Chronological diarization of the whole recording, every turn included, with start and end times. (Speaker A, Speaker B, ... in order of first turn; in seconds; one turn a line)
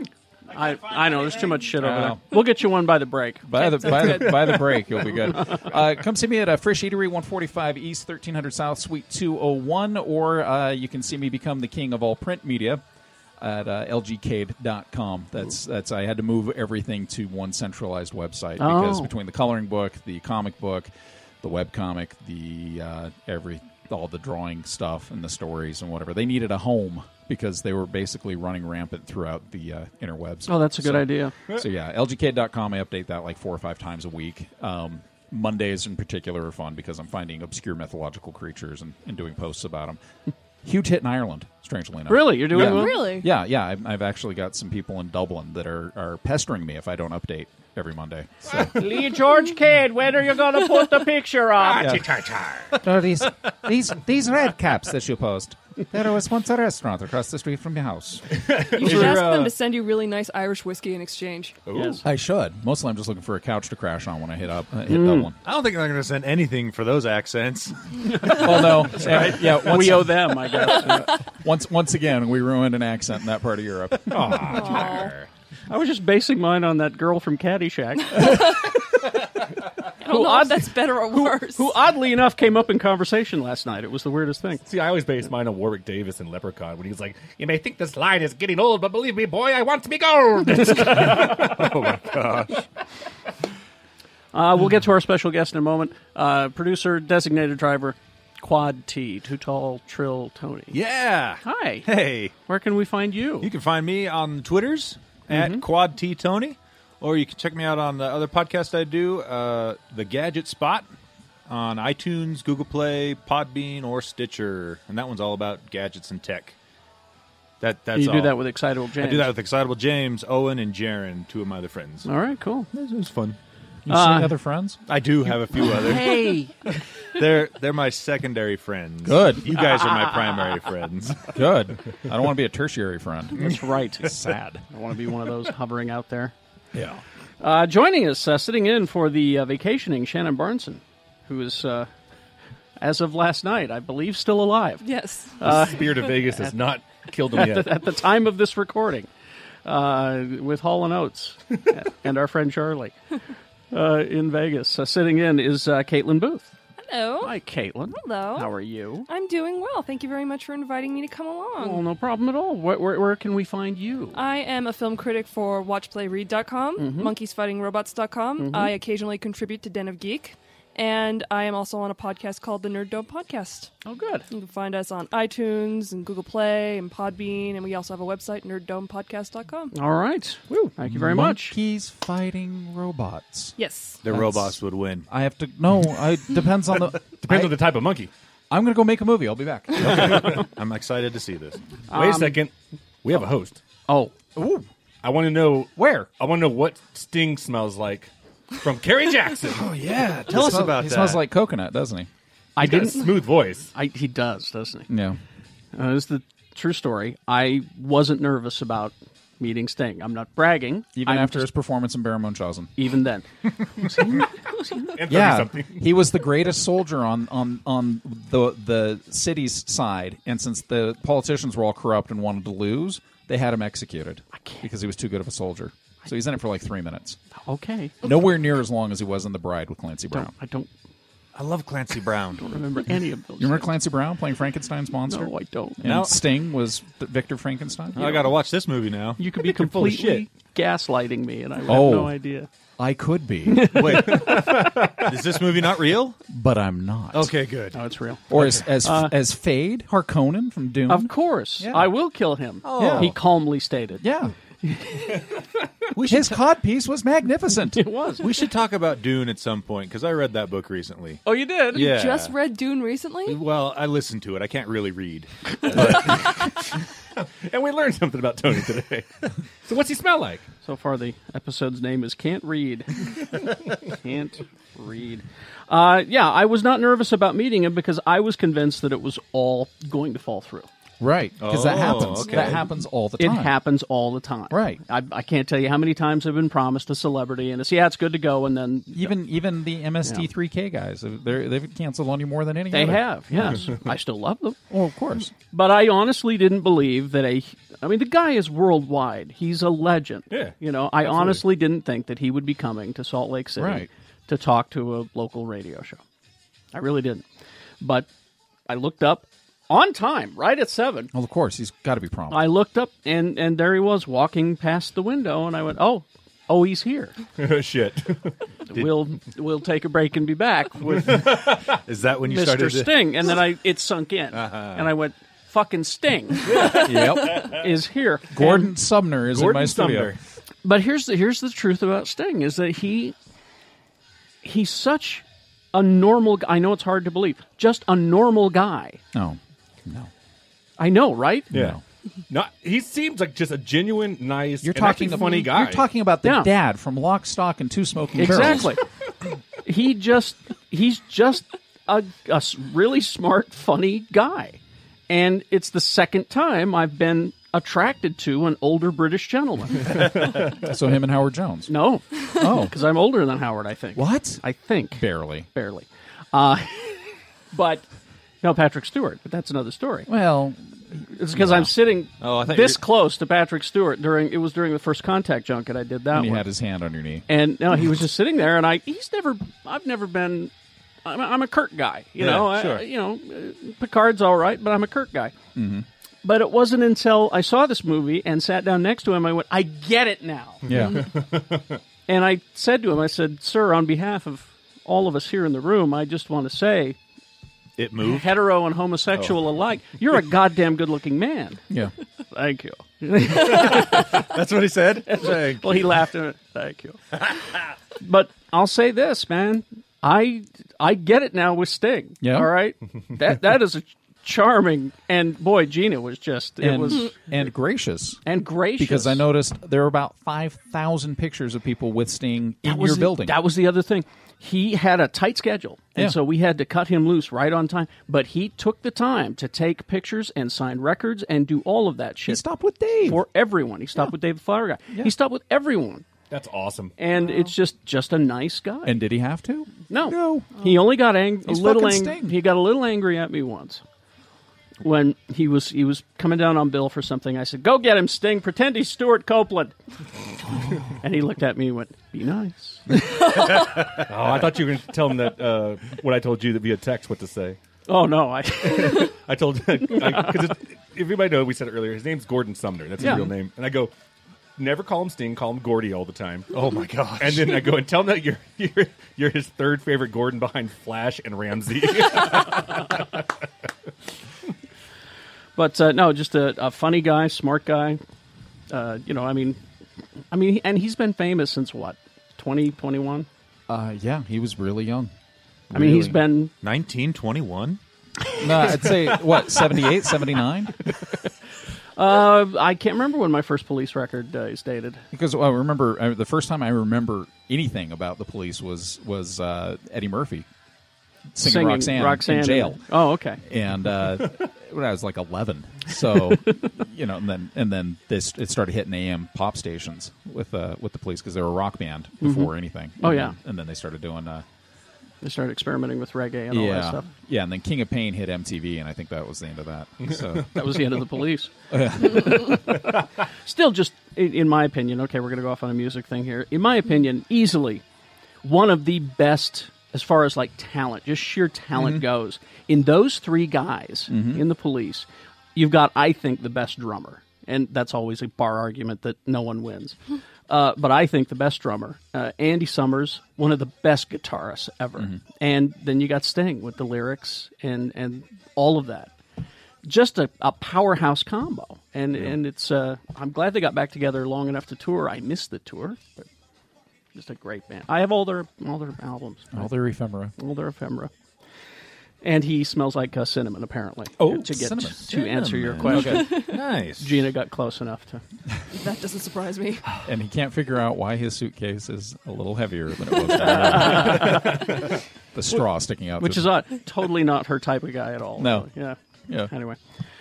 Speaker A: 0.5-4.3
Speaker B: 1.8-2.2
Speaker B: 3.5-12.8
Speaker C: 3.8-4.4
Speaker B: 13.4-20.9
Speaker A: 18.6-19.1
Speaker B: 21.4-40.0
Speaker A: 30.5-31.3
Speaker B: 40.6-48.7
Speaker A: 42.1-43.1
Speaker C: 42.5-43.3
Speaker A: 48.7-52.0
Speaker D: 51.6-52.8
Speaker B: 52.8-58.2
Speaker D: 58.3-59.5
Speaker C: 58.7-61.5
Speaker B: 58.9-59.1
Speaker D: 61.7-62.0
Speaker A: 61.7-62.0
Speaker B: 62.0-65.4
Speaker A: 64.9-65.3
Speaker E: 65.4-67.8
Speaker A: 68.0-71.1
Speaker B: 68.3-74.7
Speaker D: 74.1-75.3
Speaker C: 74.5-75.1
Speaker A: 75.7-78.6
Speaker C: 80.0-81.7
Speaker A: 80.1-84.6
Speaker D: 84.6-92.5
Speaker E: 91.7-92.5
Speaker A: 94.3-100.8
Speaker E: 100.7-102.3
Speaker A: 101.4-103.5
Speaker E: 103.4-110.9
Speaker A: 105.3-105.6
Speaker E: 111.5-116.5
Speaker E: 117.6-118.4
Speaker A: 117.9-119.3
Speaker E: 119.0-122.1
Speaker A: 122.0-122.7
Speaker E: 122.7-123.4
Speaker B: 123.8-125.4
Speaker A: 123.9-124.3
Speaker E: 124.9-126.3
Speaker A: 125.7-126.5
Speaker E: 127.2-131.3
Speaker B: 129.0-129.6
Speaker A: 129.5-130.6
Speaker B: 131.3-134.6
Speaker A: 133.3-134.1
Speaker A: 134.7-136.3
Speaker A: 137.4-141.9
Speaker A: 142.8-144.9
Speaker C: 144.8-145.4
Speaker A: 145.4-146.5
Speaker D: 145.4-147.7
Speaker A: 147.3-149.1
Speaker A: 149.6-152.9
Speaker A: 153.7-156.5
Speaker C: 156.9-157.3
Speaker A: 157.2-159.1
Speaker C: 157.9-158.5
Speaker C: 159.1-161.8
Speaker A: 161.6-164.2
Speaker C: 164.1-173.7
Speaker A: 166.8-167.1
Speaker A: 168.4-168.7
Speaker A: 173.8-174.3
Speaker C: 174.3-179.7
Speaker A: 179.7-181.6
Speaker B: 180.8-183.6
Speaker C: 183.6-184.0
Speaker E: 184.0-185.1
Speaker B: 184.1-187.7
Speaker D: 187.2-188.1
Speaker B: 188.5-190.4
Speaker E: 189.8-191.6
Speaker A: 191.9-192.4
Speaker D: 191.9-192.5
Speaker D: 193.0-193.6
Speaker A: 193.9-194.1
Speaker B: 194.4-194.6
Speaker D: 195.0-199.6
Speaker B: 195.8-196.0
Speaker E: 199.5-201.2
Speaker B: 200.3-202.1
Speaker A: 202.6-204.9
Speaker D: 202.6-203.7
Speaker B: 204.9-205.2
Speaker A: 205.7-211.5
Speaker B: 210.9-212.7
Speaker A: 212.8-213.2
Speaker A: 213.8-214.9
Speaker D: 214.9-215.9
Speaker B: 215.1-227.2
Speaker A: 224.4-224.7
Speaker A: 227.4-227.9
Speaker B: 228.0-230.3
Speaker A: 230.1-230.7
Speaker E: 231.3-232.5
Speaker A: 232.4-233.7
Speaker B: 233.4-238.3
Speaker A: 235.1-235.8
Speaker E: 235.8-236.2
Speaker E: 237.9-240.3
Speaker A: 239.2-242.5
Speaker B: 241.7-242.2
Speaker B: 242.8-244.1
Speaker A: 243.5-244.5
Speaker E: 243.6-246.2
Speaker B: 246.3-247.3
Speaker E: 247.1-247.8
Speaker A: 247.7-249.1
Speaker B: 248.3-251.9
Speaker A: 250.9-254.0
Speaker E: 252.6-253.2
Speaker B: 252.7-253.1
Speaker B: 254.0-254.3
Speaker A: 254.6-255.1
Speaker E: 255.9-256.4
Speaker B: 256.0-257.9
Speaker A: 257.7-258.3
Speaker E: 258.2-261.2
Speaker A: 261.2-261.9
Speaker E: 261.7-262.4
Speaker C: 261.7-263.4
Speaker E: 263.2-266.3
Speaker D: 267.4-269.1
Speaker D: 269.6-270.4
Speaker A: 270.6-273.2
Speaker A: 273.8-280.7
Speaker B: 281.0-283.6
Speaker E: 281.4-282.7
Speaker A: 283.2-289.1
Speaker B: 284.5-284.8
Speaker B: 288.9-293.6
Speaker A: 292.7-294.6
Speaker B: 294.7-295.3
Speaker A: 295.5-306.0
Speaker D: 300.3-300.6
Speaker B: 303.6-303.9
Speaker A: 306.7-307.2
Speaker A: 307.8-308.1
Speaker A: 308.7-311.1
Speaker B: 311.1-312.5
Speaker A: 312.3-317.1
Speaker D: 317.4-318.4
Speaker A: 318.7-321.3
Speaker E: 318.7-319.1
Speaker E: 320.9-323.1
Speaker D: 321.1-321.6
Speaker A: 322.2-328.7
Speaker E: 324.3-324.9
Speaker D: 326.4-327.6
Speaker B: 326.7-327.5
Speaker B: 328.3-330.1
Speaker D: 329.3-330.2
Speaker A: 330.6-333.1
Speaker A: 334.4-339.0
Speaker B: 339.1-340.1
Speaker A: 340.8-341.5
Speaker D: 341.5-341.8
Speaker B: 341.5-341.8
Speaker D: 342.3-345.8
Speaker B: 344.6-348.7
Speaker A: 346.2-346.5
Speaker A: 348.2-348.8
Speaker A: 349.6-360.0
Speaker B: 360.5-361.7
Speaker A: 361.7-367.9
Speaker B: 362.3-362.8
Speaker B: 363.9-365.5
Speaker A: 368.4-370.1
Speaker B: 370.1-371.7
Speaker A: 371.1-376.5
Speaker E: 372.2-372.9
Speaker B: 376.1-377.2
Speaker A: 377.3-380.5
Speaker A: 381.0-385.3
Speaker E: 382.2-382.8
Speaker B: 385.5-385.9
Speaker A: 386.2-390.6
Speaker B: 390.7-391.1
Speaker D: 390.9-391.6
Speaker A: 392.1-397.0
Speaker E: 397.8-398.4
Speaker A: 398.0-401.6
Speaker E: 399.1-399.4
Speaker A: 402.3-404.2
Speaker E: 403.3-406.0
Speaker A: 405.0-407.0
Speaker A: 408.0-417.1
Speaker B: 412.2-412.6
Speaker B: 416.6-418.2
Speaker A: 418.2-419.2
Speaker B: 418.8-423.4
Speaker A: 422.6-432.4
Speaker B: 432.3-433.2
Speaker A: 433.0-436.0
Speaker D: 436.3-436.9
Speaker A: 437.0-439.0
Speaker C: 437.2-437.5
Speaker B: 438.8-440.6
Speaker A: 439.9-443.8
Speaker B: 441.4-442.4
Speaker A: 444.8-449.7
Speaker A: 450.9-453.4
Speaker D: 454.0-457.6
Speaker A: 457.9-459.1
Speaker D: 458.6-463.9
Speaker A: 459.9-460.4
Speaker A: 463.0-463.3
Speaker D: 464.6-466.5
Speaker E: 466.5-467.8
Speaker D: 467.2-473.1
Speaker A: 475.6-478.0
Speaker A: 478.7-479.6
Speaker A: 480.3-483.3
Speaker B: 483.7-485.1
Speaker B: 485.7-486.2
Speaker A: 485.7-486.5
Speaker E: 486.6-487.8
Speaker B: 488.4-490.8
Speaker A: 492.0-495.0
Speaker B: 495.1-500.5
Speaker B: 501.3-502.8
Speaker A: 501.4-503.4
Speaker B: 503.4-514.4
Speaker A: 512.2-513.4
Speaker A: 515.2-517.1
Speaker B: 516.5-520.8
Speaker A: 520.5-522.8
Speaker B: 521.7-522.8
Speaker A: 523.4-527.8
Speaker A: 528.4-549.1
Speaker B: 531.7-532.0
Speaker B: 534.1-534.4
Speaker A: 549.8-556.2
Speaker A: 557.1-559.7
Speaker B: 559.5-560.3
Speaker A: 560.4-561.1
Speaker A: 562.2-568.2
Speaker B: 564.2-565.0
Speaker E: 565.1-567.2
Speaker B: 565.8-566.5
Speaker C: 566.0-566.6
Speaker C: 568.7-569.9
Speaker B: 570.0-574.7
Speaker A: 573.5-574.6
Speaker B: 575.3-576.5
Speaker A: 576.2-579.0
Speaker B: 578.4-578.7
Speaker A: 579.5-579.8